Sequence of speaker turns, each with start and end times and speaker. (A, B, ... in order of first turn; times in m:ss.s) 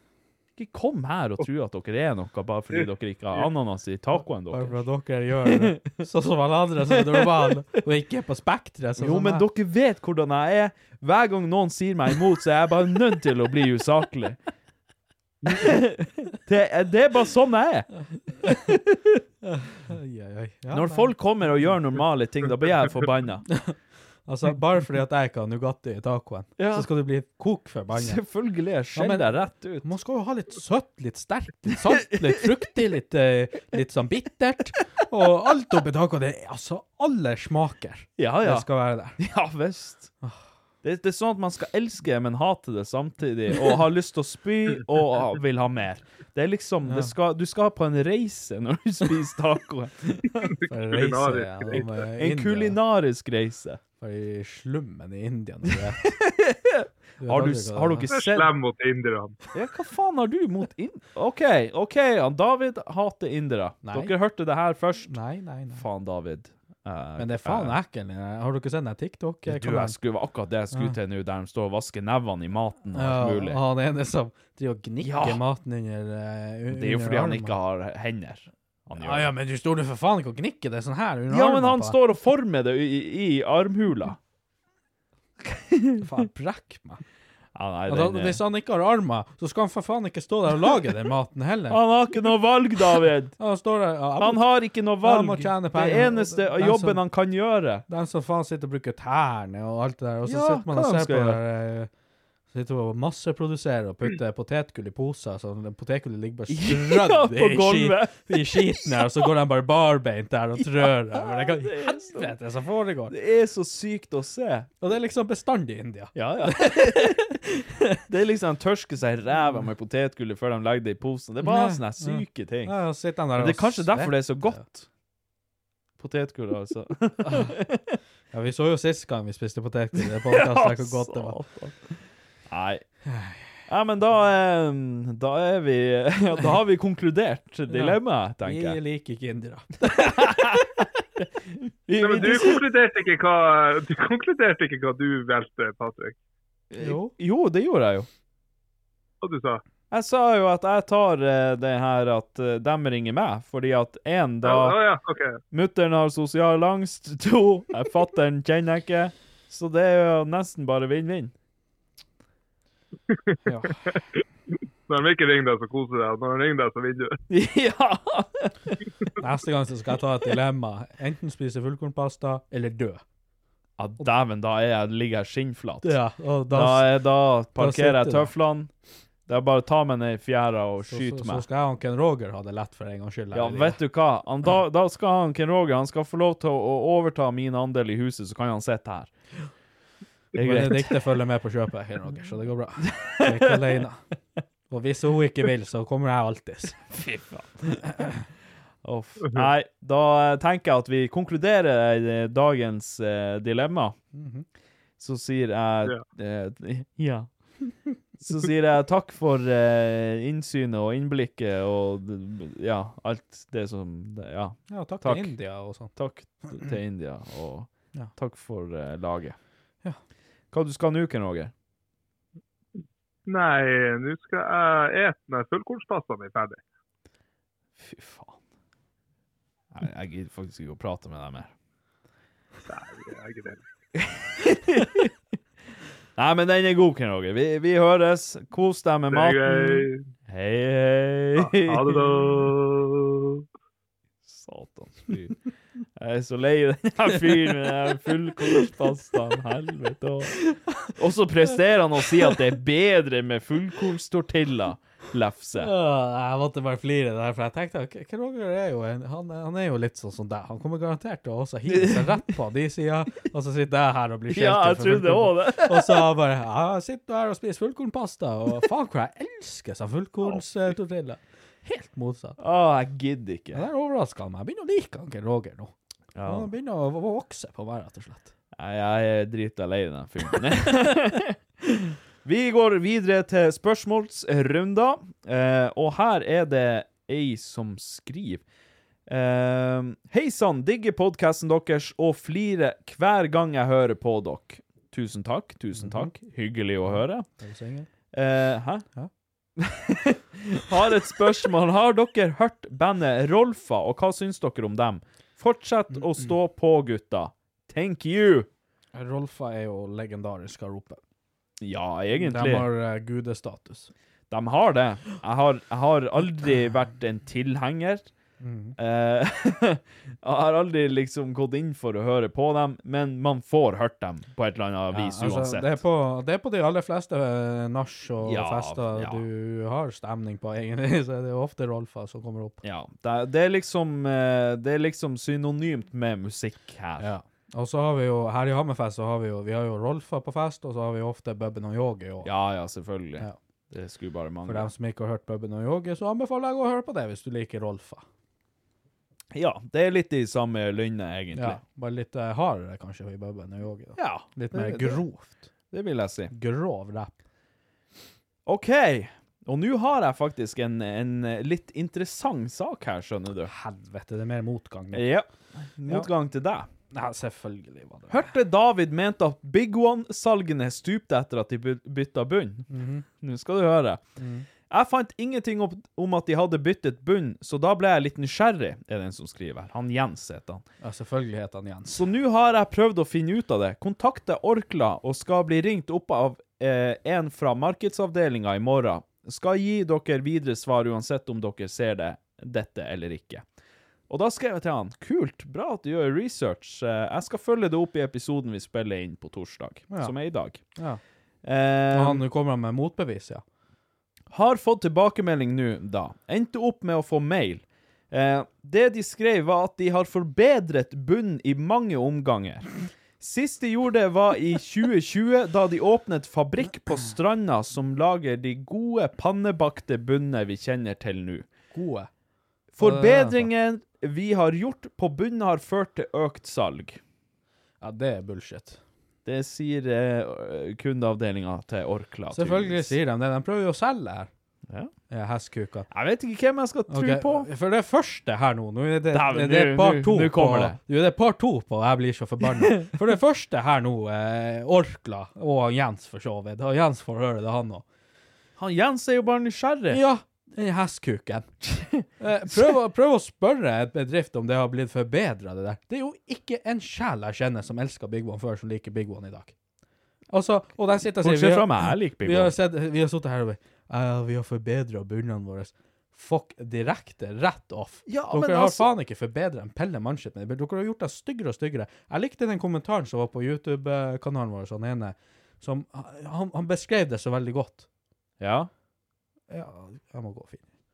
0:00.6-0:04.8 A
0:04.5-0:09.4 B
0:05.4-0:06.0 A
0:06.9-0:07.5 A
0:09.0-0:14.4 A
0:15.5-0:17.9 A
0:18.4-0:18.7 B
0:18.4-0:19.2 A
0:19.4-0:21.7 B
0:20.7-0:23.5 A
0:24.2-0:28.2 B
0:26.6-0:26.9 A
0:27.9-0:29.9 A
0:28.9-0:39.2 B
0:38.2-0:40.1 A
0:40.8-0:50.5 A
0:46.8-0:47.1 B
0:50.4-0:51.9 C
0:50.7-0:52.8 B
0:52.2-0:53.8 A
0:54.0-0:56.1 B
0:56.0-0:58.5 A
0:57.2-0:58.1 B
0:58.1-0:59.4 C
0:59.5-1:05.2 A
1:03.8-1:04.1 B
1:05.1-1:05.8 B
1:05.7-1:07.8 A
1:07.2-1:09.9 B
1:09.5-1:13.6 A
1:10.7-1:11.0 B
1:12.9-1:17.6 B
1:15.0-1:15.4 A
1:16.7-1:19.3 A
1:19.0-1:22.0 B
1:21.3-1:24.2 A
1:25.5-1:26.0 A
1:26.0-1:27.0 B
1:27.5-1:28.4 A
1:27.9-1:31.8 B
1:31.7-1:33.4 A
1:33.4-1:34.4 B
1:34.2-1:37.8 A
1:35.0-1:37.0 B
1:37.9-1:41.9 B
1:40.2-1:41.4 A
1:42.5-1:53.1 B
1:46.5-1:49.2 A
1:50.6-1:52.3 A
1:53.1-1:54.7 A
1:54.8-1:57.7 B
1:56.1-1:57.3 A
1:57.9-2:02.7 A
2:01.4-2:04.6 B
2:03.4-2:04.9 A
2:06.0-2:08.0 A
2:07.2-2:07.6 B
2:08.3-2:11.4 B
2:10.2-2:12.8 A
2:13.1-2:13.5 B
2:13.7-2:18.8 A
2:17.7-2:20.8 B
2:19.9-2:22.6 A
2:22.0-2:26.2 C
2:26.7-2:28.1 A
2:26.8-2:27.1 B
2:29.2-2:29.6 C
2:29.9-2:34.8 A
2:34.4-2:35.4 C
2:35.5-2:41.3 A
2:43.1-2:44.2 C
2:43.4-2:43.8 B
2:44.9-2:47.2 C
2:47.3-2:48.8 A
2:49.2-2:53.0 B
2:53.8-2:56.0 A
2:55.8-2:58.3 B
2:56.5-2:58.7 A
2:59.3-3:01.4 A
3:00.9-3:03.8 B
3:03.3-3:09.1 A
3:10.3-3:11.0 A
3:10.4-3:14.0 B
3:12.8-3:13.8 A
3:14.7-3:16.8 B
3:16.9-3:17.9 A
3:18.8-3:23.9 A
3:19.2-3:19.5 C
3:24.1-3:24.4 B
3:25.0-3:27.3 A
3:28.2-3:39.4 A
3:34.7-3:35.9 B
3:40.5-3:41.5 A
3:43.3-3:46.6 C
3:47.8-3:48.4 A
3:49.7-3:51.5 A
3:52.7-3:53.6 C
3:54.0-3:55.1 A
3:56.2-4:02.3 A
3:59.1-4:00.1 C
4:01.4-4:03.4 C
4:04.2-4:05.4 A
4:06.0-4:15.7 A
4:15.6-4:32.4 B
4:21.7-4:22.2 A
4:24.3-4:26.1 A
4:32.4-4:33.6 A
4:33.5-4:35.7 B
4:36.1-4:36.5 A
4:36.2-4:38.3 B
4:38.6-4:48.4 A
4:49.1-4:57.2 A
4:55.7-4:56.1 B
4:56.9-4:57.9 B
4:58.1-4:58.8 A
4:59.6-5:08.5 A
5:05.9-5:06.3 B
5:08.9-5:11.0 B
5:11.6-5:12.7 A
5:12.1-5:13.9 B
5:14.3-5:18.1 A
5:18.4-5:18.7 B
5:18.8-5:25.8 A
5:24.9-5:32.6 B
5:28.2-5:29.2 A
5:32.6-5:37.1 A
5:37.0-5:42.3 B
5:42.2-5:44.7 A
5:44.4-5:48.0 B
5:49.3-5:51.6 A
5:51.3-5:55.5 B
5:54.0-5:55.0 A
5:55.7-5:56.3 A
5:56.3-5:57.1 B
5:58.4-6:03.5 A
6:03.5-6:05.1 B
6:04.9-6:06.7 A
6:06.9-6:08.2 B
6:08.1-6:12.7 A
6:12.7-6:13.0 B
6:13.2-6:14.0 A
6:14.2-6:14.4 B
6:14.7-6:20.6 A
6:20.8-6:22.0 B
6:21.9-6:33.4 A
6:34.1-6:40.6 A
6:40.7-6:41.0 B
6:41.4-6:42.2 A
6:41.9-6:43.4 B
6:44.3-7:01.4 A
7:01.7-7:02.1 B
7:02.8-7:07.0 A
7:02.8-7:03.5 B
7:07.8-7:08.8 B
7:09.2-7:13.0 A
7:12.3-7:14.3 B
7:15.1-7:15.9 B
7:15.9-7:17.5 A
7:16.9-7:27.8 B
7:19.1-7:20.8 A
7:28.6-7:30.0 A
7:29.9-7:31.5 B
7:31.6-7:32.0 A
7:32.2-7:39.5 B
7:40.3-7:57.8 B
7:41.1-7:42.5 A
7:48.1-7:48.9 A
7:58.4-7:58.7 A
7:59.5-8:00.6 B